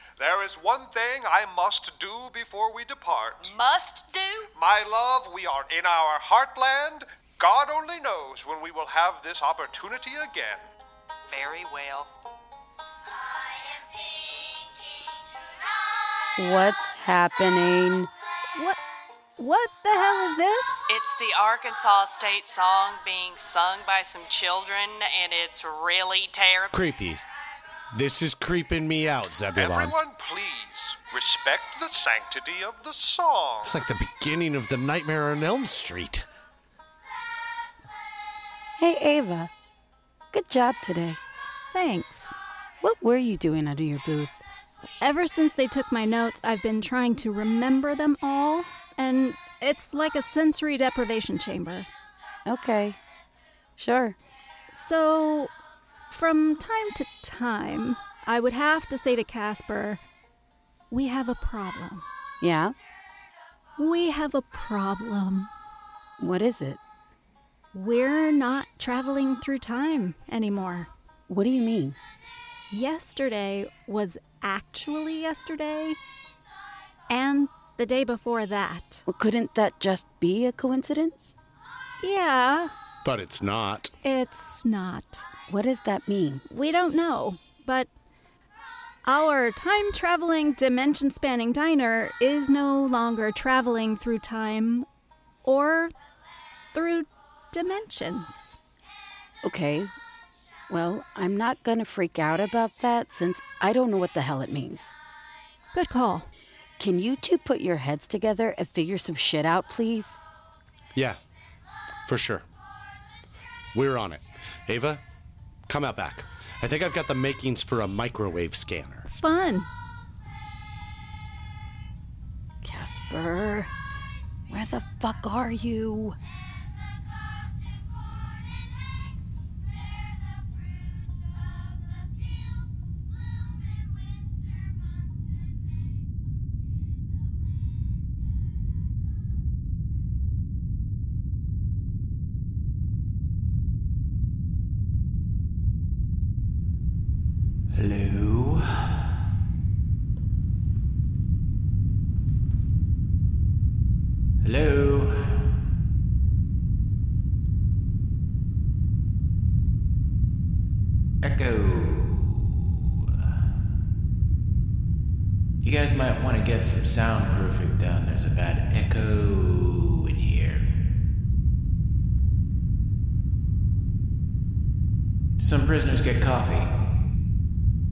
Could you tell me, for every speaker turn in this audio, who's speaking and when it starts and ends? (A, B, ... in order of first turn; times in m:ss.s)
0:00.2-0:03.5 A
0:03.4-0:04.5 B
0:04.5-0:10.7 A
0:11.3-0:12.1 B
0:16.4-0:18.1 C
0:19.4-0:20.8 D
0:20.9-0:26.8 B
0:26.7-0:27.2 E
0:27.9-0:29.9 E
0:29.5-0:33.7 A
0:33.6-0:36.2 E
0:38.8-0:39.5 C
0:40.3-0:41.2 C
0:41.7-0:42.4 D
0:42.8-0:44.4 C
0:45.0-0:51.9 D
0:52.4-0:53.0 C
0:53.8-0:54.2 C
0:54.7-0:55.5 D
0:56.1-1:00.0 D
1:00.9-1:02.0 D
1:02.4-1:02.7 C
1:03.8-1:05.5 D
1:06.2-1:06.8 C
1:07.7-1:10.9 D
1:11.3-1:12.0 C
1:12.7-1:16.0 D
1:17.1-1:19.0 D
1:19.1-1:21.3 C
1:22.0-1:22.7 D
1:23.0-1:23.9 E
1:24.0-1:25.3 D
1:25.5-1:26.4 C
1:26.5-1:27.9 D
1:29.0-1:34.9 D
1:35.4-1:35.9 D
1:36.7-1:38.6 D
1:39.4-1:39.9 C
1:40.7-1:44.9 C
1:45.7-1:46.3 D
1:46.8-1:50.2 C
1:52.0-1:52.4 E
1:53.7-1:55.0 E
1:55.7-1:59.1 E
1:59.1-1:59.7 D
2:02.6-2:03.7 C
2:04.5-2:06.2 C
2:41.3-2:42.0 F
2:45.6-2:50.6 F
2:55.4-2:56.7 F